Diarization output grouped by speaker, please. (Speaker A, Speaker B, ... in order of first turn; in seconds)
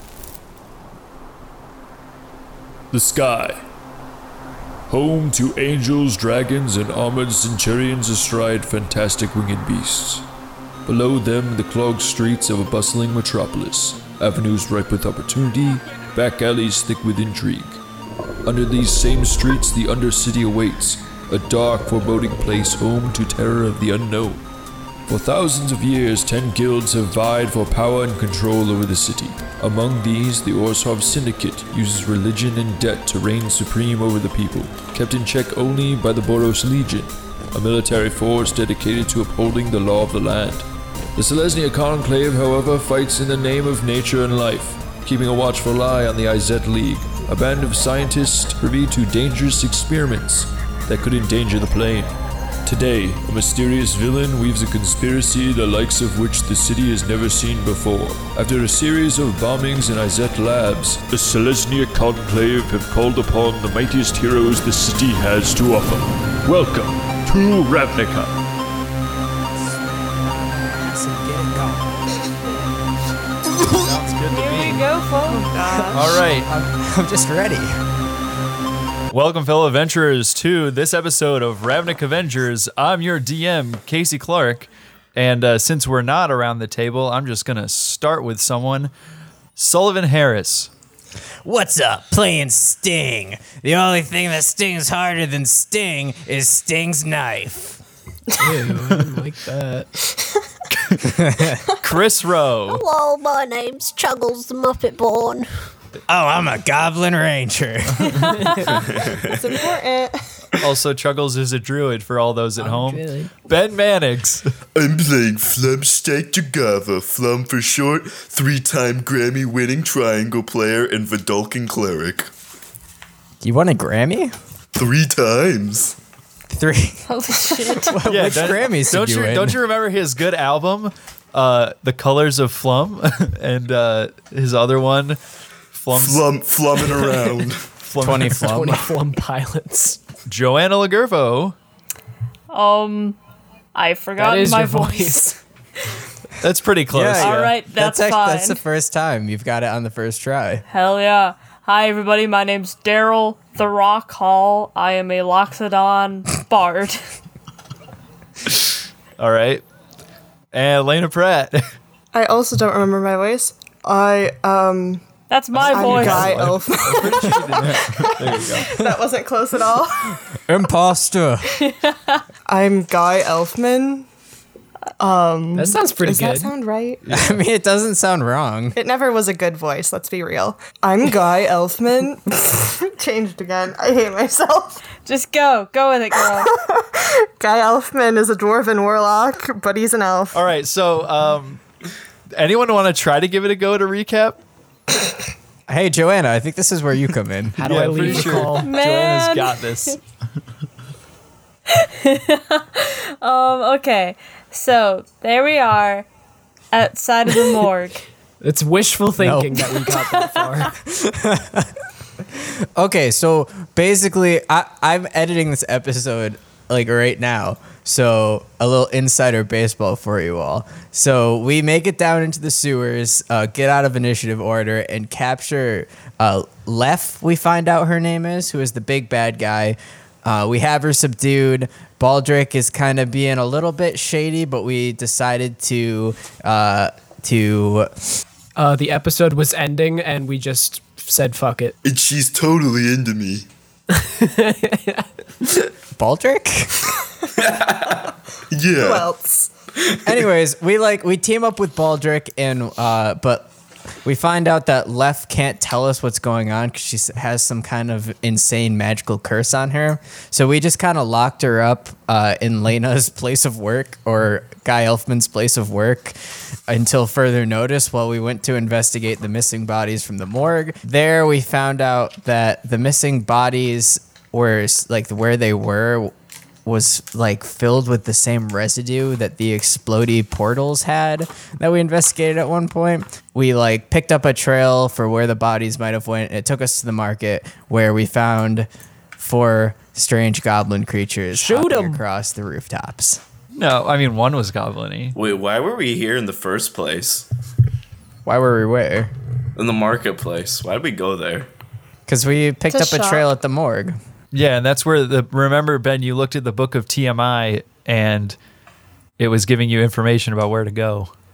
Speaker A: 2.9-3.6, 4.9-10.3, 10.9-17.8, 18.4-24.4, 25.1-68.4
Speaker B: 70.4-71.9, 75.7-77.8, 91.4-97.8, 101.1-101.6, 106.1-108.2, 123.4-124.3, 126.5-127.1, 127.7-129.6, 138.0-138.9, 146.9-150.7, 170.5-171.5, 177.1-178.8, 195.7-197.6, 209.2-209.7, 210.8-211.7, 212.3-237.9, 246.0-246.8, 250.1-253.5, 254.0-266.2, 266.7-276.1, 276.6-293.2, 298.2-299.1, 302.1-304.0
Speaker C: 73.7-74.9, 75.9-76.5, 79.1-88.9, 89.6-90.7, 100.8-101.2, 101.8-102.8, 110.6-114.5, 128.0-135.2, 135.7-136.3, 136.8-137.1, 137.8-138.4, 140.3-141.6, 146.4-147.6, 159.2-159.6, 160.5-161.6, 165.5-168.8, 177.1-177.4, 190.3-191.6, 192.4-194.4, 197.6-200.0, 293.6-295.2, 304.3-308.4, 309.2-311.1
Speaker D: 74.3-75.5, 127.1-128.0, 142.5-143.2, 143.8-145.4, 147.2-148.6, 150.7-157.0, 165.3-166.4, 171.8-172.2, 185.1-186.5, 198.6-199.7, 201.7-206.1, 206.7-208.0, 210.0-210.6
Speaker E: 75.3-76.2, 109.2-110.2, 162.1-165.0, 165.6-170.2, 172.5-174.1, 175.0-177.0, 178.8-184.8, 186.3-190.5, 248.8-249.5, 302.7-303.3
Speaker F: 98.4-99.9, 138.3-140.0, 144.2-145.3, 175.6-176.5, 197.6-198.7, 208.4-210.7, 238.6-241.8, 243.9-245.1, 291.3-292.0
Speaker G: 102.7-105.5, 112.6-113.3
Speaker H: 114.8-122.3, 124.8-126.0, 135.9-137.7, 241.8-243.5, 248.5-249.1
Speaker I: 295.2-297.3, 299.6-301.5